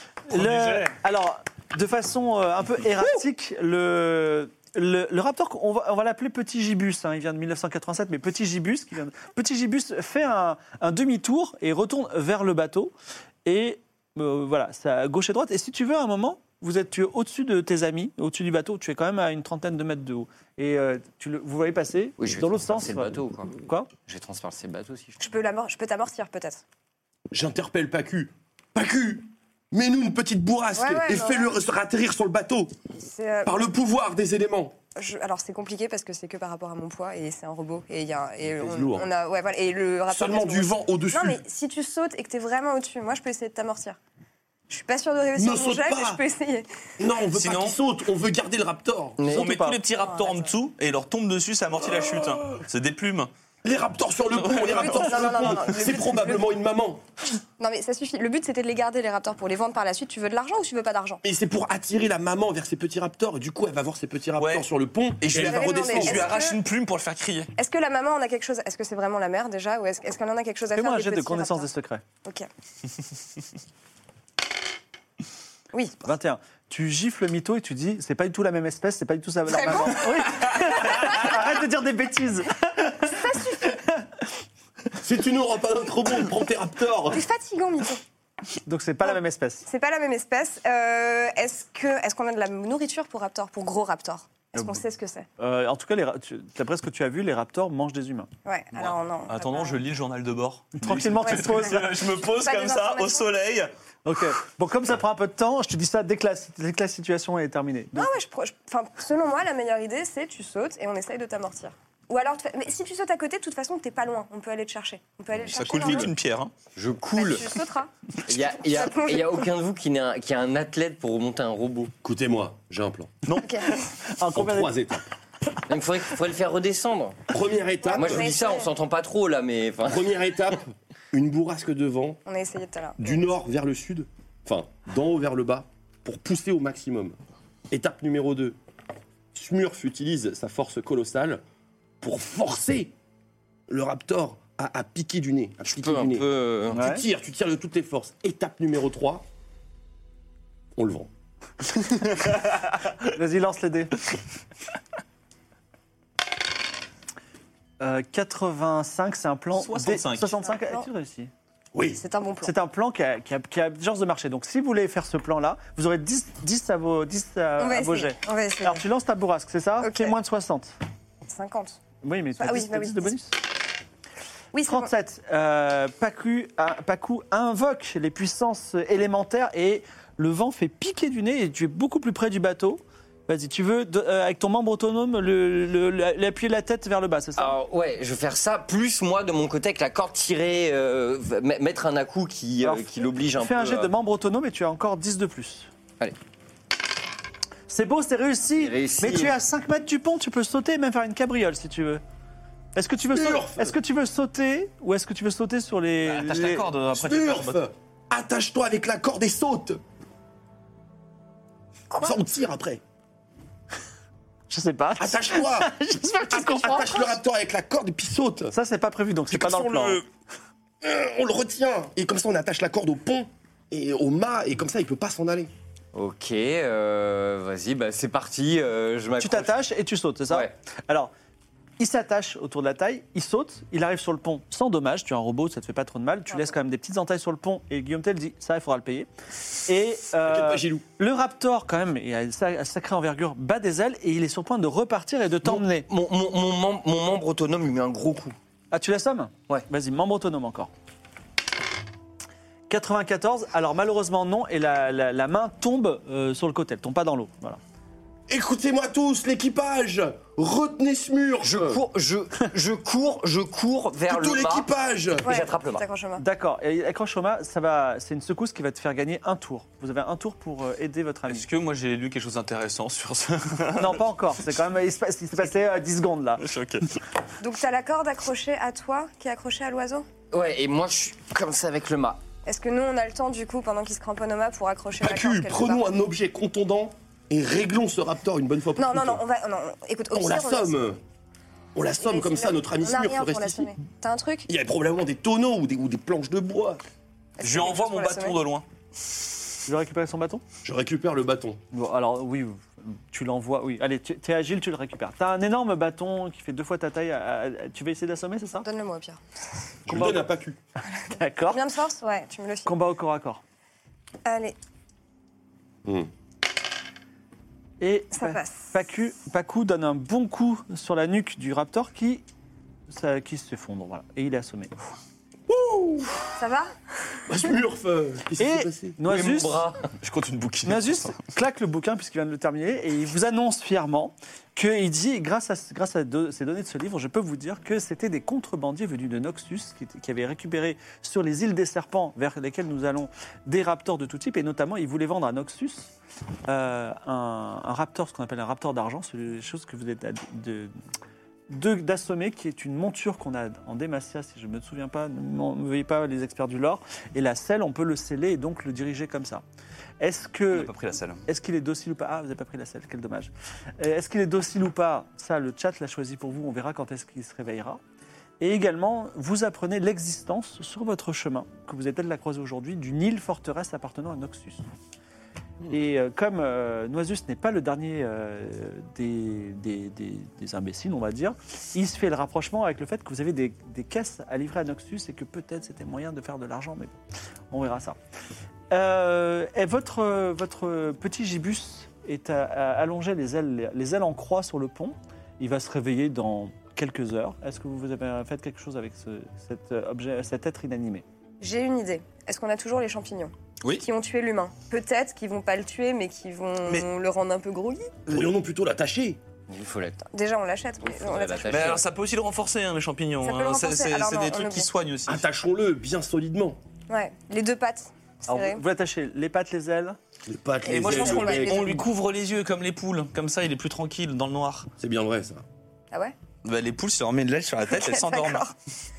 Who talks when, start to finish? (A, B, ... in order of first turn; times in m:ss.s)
0:00.3-0:12.9 A
0:00.3-0:00.9 B
0:13.4-0:23.9 A
0:22.2-0:23.5 C
0:24.0-0:25.2 C
0:25.2-0:26.6 D
0:27.3-0:32.7 E
0:30.7-0:31.6 D
0:33.0-0:33.7 D
0:33.4-0:34.7 E
0:34.9-0:44.0 D
0:38.5-0:39.1 E
0:40.1-0:41.4 E
0:44.7-0:46.7 D
0:45.4-0:46.2 E
0:47.0-0:49.3 E
0:47.3-0:47.8 B
0:49.2-0:49.6 C
0:49.3-0:53.3 B
0:49.3-0:49.8 A
0:49.9-0:50.5 D
0:53.6-0:57.0 E
0:54.4-0:55.1 B
0:54.6-0:56.5 D
0:57.6-1:01.2 D
1:01.2-1:06.4 E
1:04.4-1:04.7 B
1:05.2-1:07.5 B
1:05.3-1:06.6 D
1:07.6-1:11.7 D
1:10.7-1:12.0 A
1:15.7-1:16.0 D
1:16.0-1:24.0 A
1:19.5-1:21.3 D
1:23.0-1:23.8 D
1:25.0-1:27.2 E
1:27.1-1:28.0 D
1:28.6-1:29.7 A
1:29.7-1:35.3 D
1:35.4-1:38.3 A
1:38.4-1:39.8 D
1:38.7-1:43.7 B
1:40.8-1:41.9 A
1:41.3-1:43.3 D
1:44.0-1:48.1 A
1:47.9-1:56.1 D
1:55.4-1:56.5 B
1:56.8-1:57.5 C
1:57.1-1:57.9 D
1:58.2-2:01.9 C
1:58.5-1:59.5 D
2:02.0-2:03.2 E
2:03.4-2:03.9 D
2:04.1-2:04.7 A
2:04.3-2:05.0 E
2:05.7-2:07.3 C
2:07.3-2:08.3 E
2:07.8-2:08.7 D
2:07.9-2:10.2 C
2:09.8-2:12.2 E
2:12.2-2:13.3 D
2:13.0-2:17.2 E
2:17.7-2:18.6 E
2:19.3-2:21.4 E
2:22.0-2:22.9 E
2:23.7-2:29.2 E
2:25.6-2:26.8 C
2:26.7-2:27.0 A
2:30.8-2:31.1 E
2:32.2-2:32.8 B
2:33.1-2:34.0 A
2:37.8-2:41.3 A
2:39.5-2:40.4 B
2:40.5-2:40.8 D
2:41.7-2:42.0 E
2:42.0-2:42.5 D
2:42.4-2:50.7 A
2:47.6-2:48.8 D
2:49.8-2:50.1 D
2:51.2-2:51.8 D
2:52.0-2:53.4 A
2:52.4-2:53.1 D
2:54.5-2:54.9 D
2:54.7-3:07.6 A
3:07.4-3:13.9 C
3:12.6-3:15.7 A
3:17.7-3:22.0 A
3:18.6-3:19.4 C
3:22.7-3:26.7 A
3:23.1-3:23.7 E
3:26.0-3:27.6 B
3:26.9-3:29.8 E
3:32.0-3:32.8 E
3:34.5-3:37.1 A
3:35.0-3:35.7 E
3:36.3-3:38.5 E
3:38.5-3:40.0 A
3:39.5-3:39.8 E
3:40.8-3:45.5 E
3:45.9-3:49.6 C
3:49.2-3:51.1 A
3:51.8-3:59.1 A
3:56.3-3:56.5 D
3:59.6-4:05.9 A
4:00.2-4:00.8 E
4:05.4-4:08.4 C
4:08.7-4:10.7 A
4:12.7-4:17.6 A
4:18.3-4:21.8 E
4:21.4-4:24.7 C
4:24.1-4:25.3 E
4:25.2-4:25.8 C
4:25.2-4:26.2 D
4:26.2-4:31.5 A
4:31.3-4:34.0 B
4:33.8-4:36.5 A
4:36.4-4:37.0 B
4:37.4-4:40.0 D
4:40.3-4:42.2 C
4:42.4-4:45.8 D
4:45.0-4:49.2 E
4:48.8-4:50.8 D
4:50.1-4:51.0 E
4:51.7-4:53.7 E
4:52.0-4:54.5 D
4:54.5-4:56.8 E
4:57.4-4:58.4 D
4:57.4-4:58.6 B
4:59.7-5:00.4 A
5:00.6-5:01.6 E
5:01.7-5:08.6 A
5:08.6-5:09.2 D
5:09.8-5:10.6 E
5:09.9-5:10.2 A
5:11.1-5:11.6 A
5:11.5-5:12.7 D
5:12.6-5:13.4 A
5:14.2-5:14.6 D
5:17.8-5:22.2 A
5:18.2-5:18.7 D
5:22.9-5:24.7 A
5:25.5-5:26.2 E
5:26.4-5:26.7 D
5:27.3-5:29.0 E
5:28.4-5:29.6 A
5:29.0-5:29.9 C
5:30.0-5:31.2 B
5:30.6-5:45.9 A
5:46.5-5:50.7 A
5:51.5-5:59.4 A
6:00.0-6:00.7 A
6:00.5-6:01.2 B
6:01.3-6:07.8 A
6:08.4-6:14.6 A
6:15.7-6:26.9 A
6:27.5-6:28.0 A
6:28.7-6:41.0 A
6:41.4-6:48.0 D
6:48.1-6:49.2 E
6:49.5-6:50.0 C
6:50.1-6:51.8 D
6:50.8-6:51.8 C
6:51.4-6:55.3 B
6:53.2-6:54.7 D
6:55.0-6:56.6 E
6:56.9-6:58.6 D
6:58.3-7:00.0 A
7:00.2-7:01.8 E
7:00.6-7:04.7 B
7:00.7-7:01.8 D
7:04.8-7:05.4 E
7:06.4-7:08.5 B
7:07.6-7:08.5 D